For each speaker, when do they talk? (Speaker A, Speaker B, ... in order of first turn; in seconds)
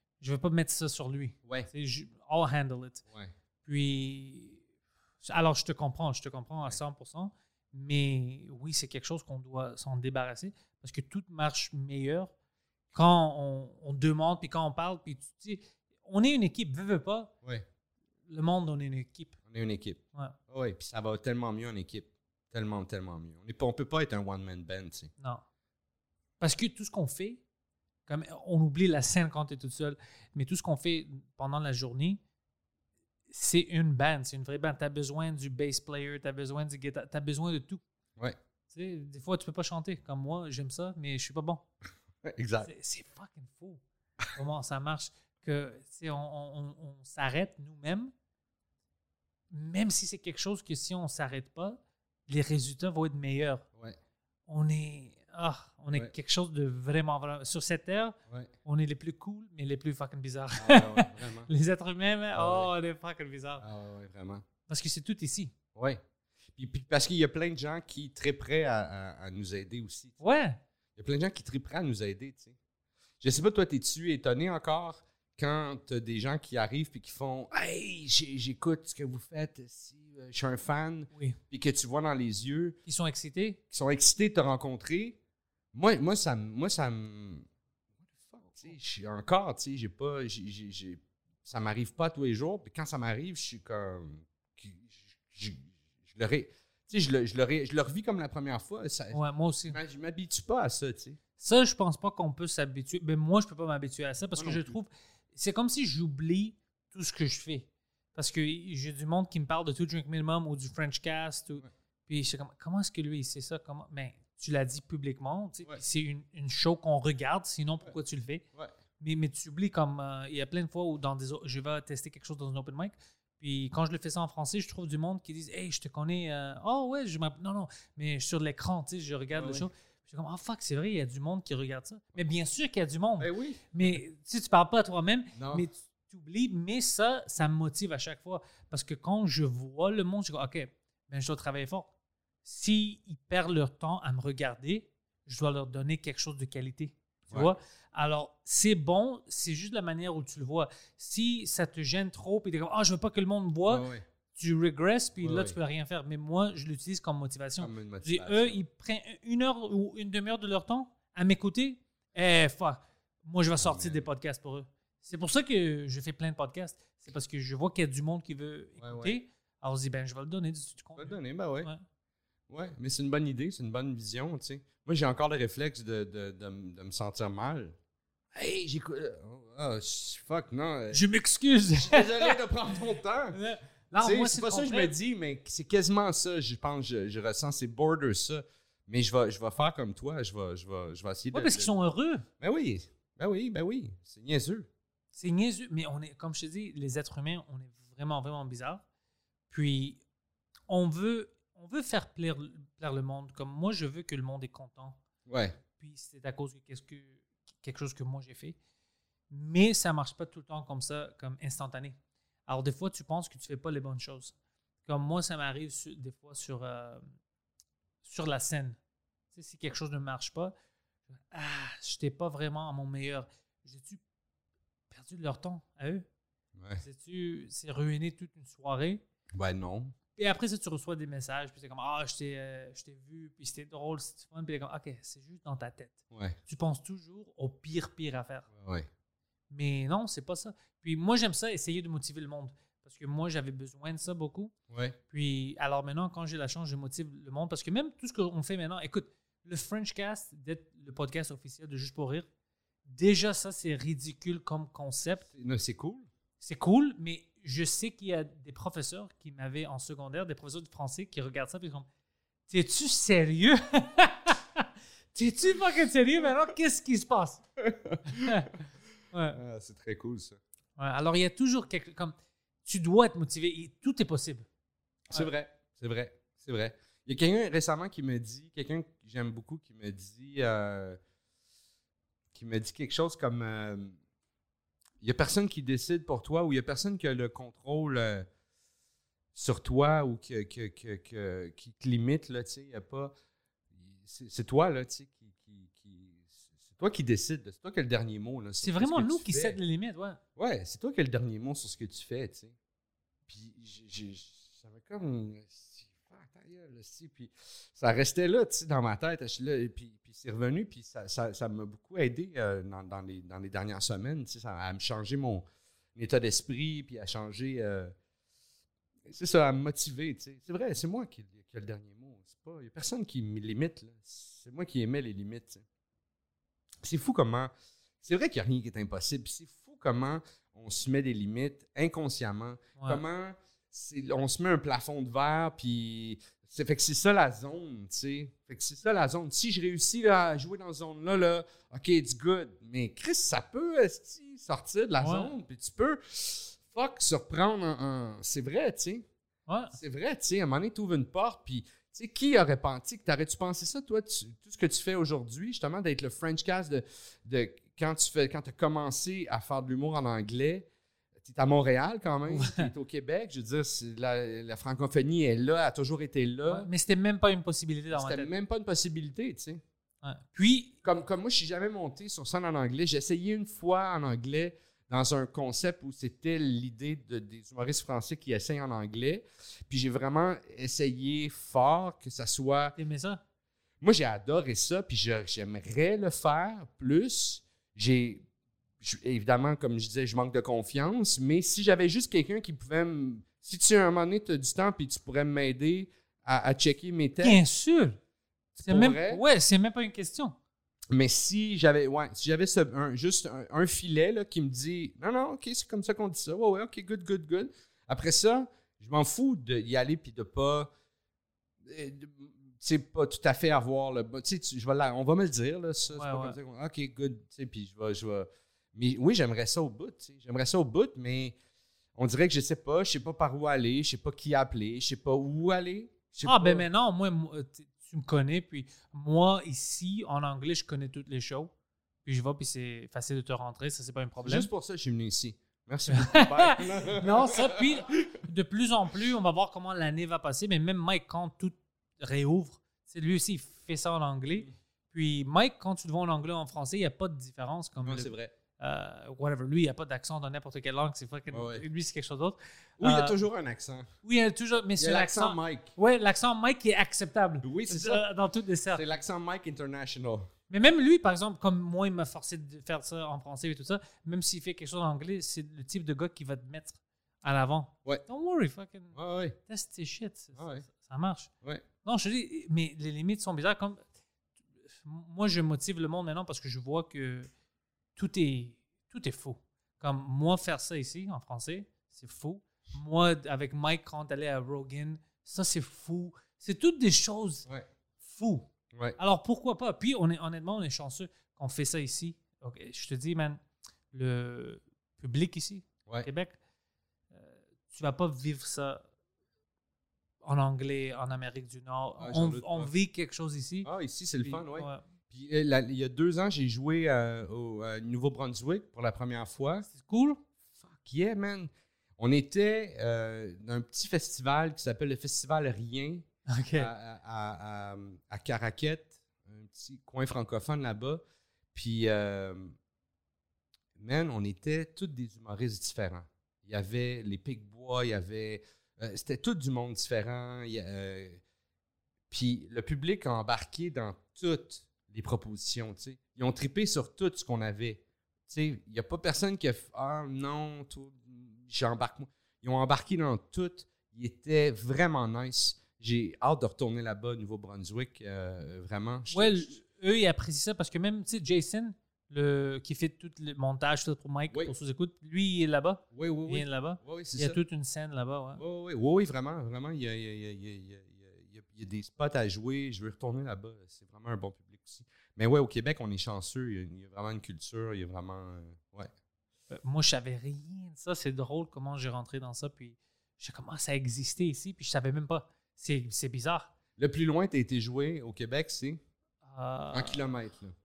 Speaker A: 0.2-3.0, 3.6-4.6, 5.2-12.3, 12.9-17.3, 18.3-19.4, 26.4-27.4, 28.1-32.2, 33.3-37.8, 38.7-41.6, 42.6-43.8, 44.3-48.1, 49.5-53.6, 54.5-63.6, 64.7-65.5, 70.2-70.6, 81.1-81.4, 82.8-83.6, 99.1-99.8, 101.4-118.4, 119.0-141.9, 142.4-171.8, 180.9-182.3, 183.3-184.9, 191.3-192.3, 195.1-198.8, 199.5-200.0, 200.7-205.0, 205.8-208.6, 209.3-214.3, 214.8-217.0, 218.0-218.8, 219.3-220.5, 221.3-224.0, 224.9-226.1, 226.8-229.0, 230.2-238.5, 239.5-244.5, 245.1-252.3, 252.8-255.2, 256.4-261.9, 262.5-267.4, 268.1-268.5, 269.1-269.4, 270.8-274.5, 298.6-300.2, 345.0-345.3, 349.5-349.8, 362.3-362.7, 366.5-368.3, 370.0-370.8, 382.8-383.2, 397.2-398.0, 398.6-400.3, 415.9-416.4, 426.2-431.5, 432.0-434.5, 435.9-453.2, 454.0-458.8, 460.5-471.3, 471.8-473.8, 474.7-477.3, 477.9-487.4, 488.0-493.4, 493.9-496.4, 497.1-498.8, 500.2-503.7, 504.2-504.8, 509.7-510.2, 516.3-516.7, 549.1-558.4, 569.5-576.5, 579.2-580.0
Speaker B: 19.5-25.1, 42.2-42.7, 60.5-61.5, 62.4-62.7, 63.6-64.4, 65.7-66.0, 66.5-70.2, 71.0-72.5, 73.2-82.8, 83.7-85.2, 85.7-87.5, 88.1-101.2, 104.3-104.7, 129.3-129.7, 133.2-134.0, 135.3-135.7, 153.7-154.0, 155.2-155.6, 157.6-158.6, 163.6-164.0, 168.8-169.2, 171.0-171.7, 172.5-177.8, 178.3-181.0, 181.8-183.4, 184.0-191.8, 192.4-194.7, 205.3-205.6, 226.6-226.8, 229.3-229.9, 236.1-236.4, 238.5-238.9, 244.7-245.0, 255.3-256.1, 267.6-268.6, 269.3-270.4, 275.1-281.0, 282.3-284.0, 285.0-288.3, 289.3-293.1, 293.7-299.6, 300.4-302.5, 303.3-317.9, 319.1-325.6, 326.8-349.1, 349.7-366.7, 367.9-369.6, 370.8-382.7, 383.8-388.2, 388.8-397.4, 398.5-399.2, 400.9-410.7, 411.6-421.4, 421.9-426.6, 434.2-438.1, 447.8-448.3, 451.3-451.6, 452.8-453.9, 454.8-455.7, 457.4-458.0, 458.7-460.3, 468.9-469.4, 470.3-470.6, 488.7-489.0, 502.0-502.7, 503.6-509.7, 510.6-521.0, 521.5-522.5, 523.8-531.2, 532.1-549.6, 555.9-557.4, 558.4-568.9, 576.8-578.8, 579.7-580.5